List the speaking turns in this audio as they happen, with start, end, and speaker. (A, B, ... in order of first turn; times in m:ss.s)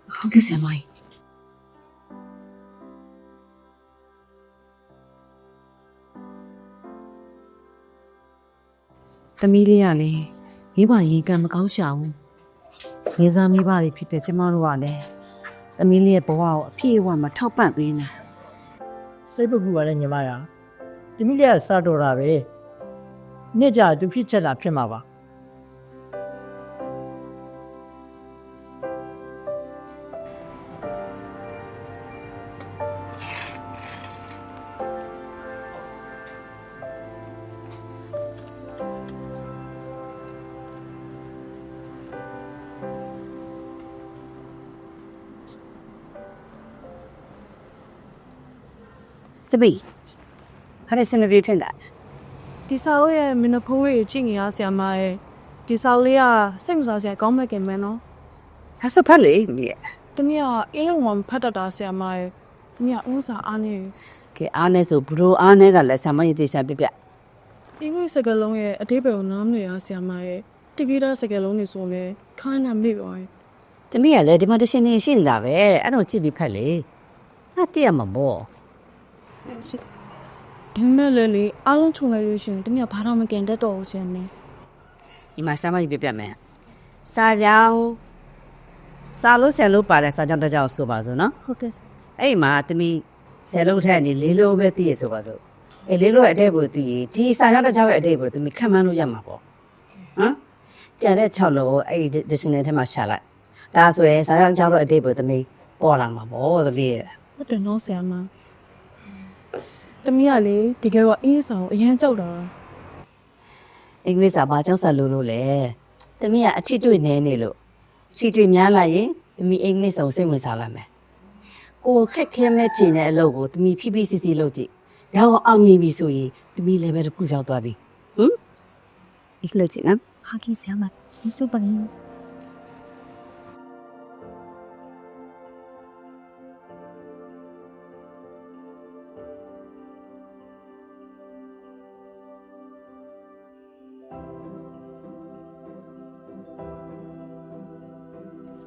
0:00.2-0:00.8 A
0:09.4-0:12.2 A
0:13.2-0:15.1 A
0:15.8-0:18.1 A
0:19.3-0:20.5 B
0:21.2-0:22.4 B
0:23.5-0:25.0 B
0:49.5-0:49.8 C
0:50.9-0:51.8 C
0:52.7-0:58.0 D
0:58.8-0:59.8 C
1:00.2-1:03.9 D
1:04.4-1:06.9 C
1:07.8-1:13.3 D
1:13.9-1:16.9 C
1:17.6-1:18.5 C
1:20.8-1:24.3 D
1:25.4-1:26.4 C
1:27.1-1:28.0 C
1:29.1-1:31.3 C
1:31.5-1:31.8 D
1:32.2-1:39.4 C
1:41.0-1:43.2 C
1:43.7-1:47.1 C
1:47.4-1:48.3 D
1:50.0-1:52.5 D
1:54.0-1:57.5 C
1:58.1-2:00.9 C
2:01.8-2:08.4 C
2:09.4-2:12.0 C